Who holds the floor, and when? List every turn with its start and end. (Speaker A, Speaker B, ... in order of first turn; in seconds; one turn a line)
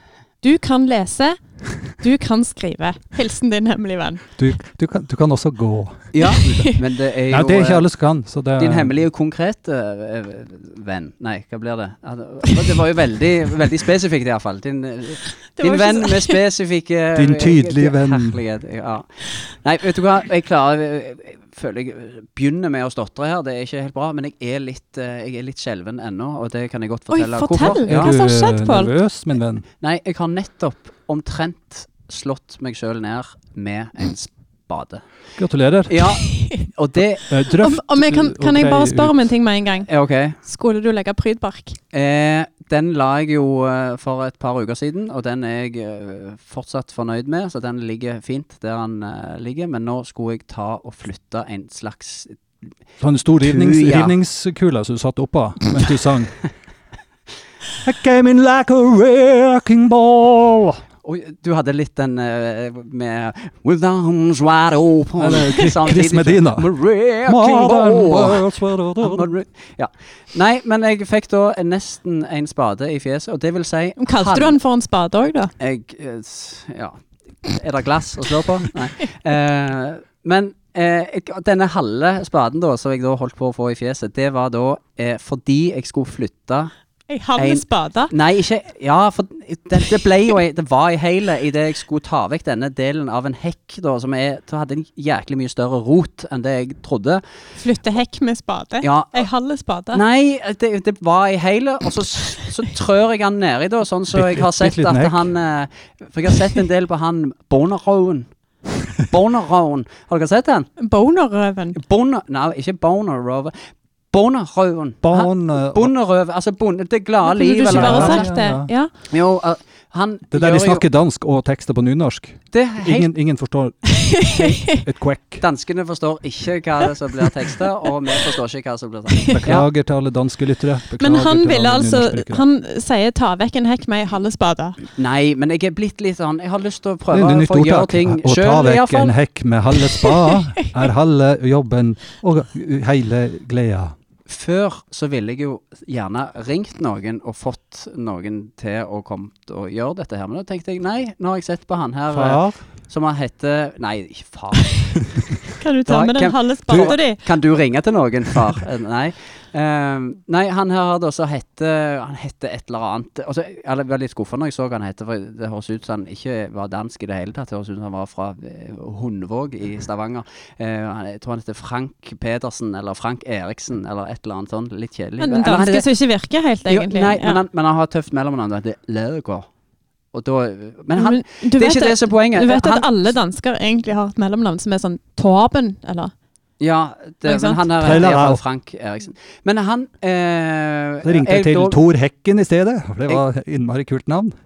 Speaker A: 0.4-4.2
Speaker B: 4.4-6.6
Speaker C: 6.1-7.9
Speaker A: 6.4-6.8
Speaker B: 7.3-8.9
Speaker C: 8.6-28.1
Speaker A: 15.6-16.4
Speaker B: 17.1-18.4
Speaker A: 27.1-28.9
Speaker B: 27.6-29.6
Speaker C: 29.8-35.0
Speaker B: 35.4-36.0
Speaker C: 35.9-37.3
Speaker A: 36.1-36.7
Speaker B: 37.3-39.2
Speaker A: 37.6-39.9
Speaker C: 39.9-40.4
Speaker A: 40.4-41.8
Speaker C: 41.9-52.5
Speaker B: 53.0-56.4
Speaker C: 53.4-54.1
Speaker B: 57.8-60.8
Speaker C: 61.0-74.6
Speaker B: 65.2-66.7
Speaker B: 67.2-69.3
Speaker A: 74.0-75.5
Speaker C: 75.6-86.7
Speaker A: 87.1-88.1
Speaker C: 87.3-97.2
Speaker A: 97.6-100.0
Speaker C: 98.8-99.3
Speaker C: 99.9-108.3
Speaker B: 104.1-105.3
Speaker C: 109.1-110.7
Speaker A: 110.8-111.8
Speaker C: 111.7-113.5
Speaker C: 114.1-118.3
Speaker B: 115.0-115.9
Speaker A: 117.2-118.9
Speaker B: 117.7-118.7
Speaker C: 119.1-120.8
Speaker B: 120.3-125.4
Speaker C: 122.5-123.1
Speaker A: 124.0-124.8
Speaker C: 125.4-129.7
Speaker A: 129.1-129.4
Speaker B: 129.3-132.4
Speaker A: 131.0-134.8
Speaker C: 134.9-139.1
Speaker B: 137.1-143.9
Speaker C: 144.3-155.2
Speaker B: 152.1-152.7
Speaker A: 155.6-157.3
Speaker C: 155.9-175.9
Speaker A: 175.2-177.4
Speaker C: 176.7-179.5
Speaker C: 180.1-182.9
Speaker A: 180.9-186.1
Speaker C: 186.6-191.8
Speaker A: 187.2-188.0
Speaker B: 187.8-188.4
Speaker B: 191.0-194.3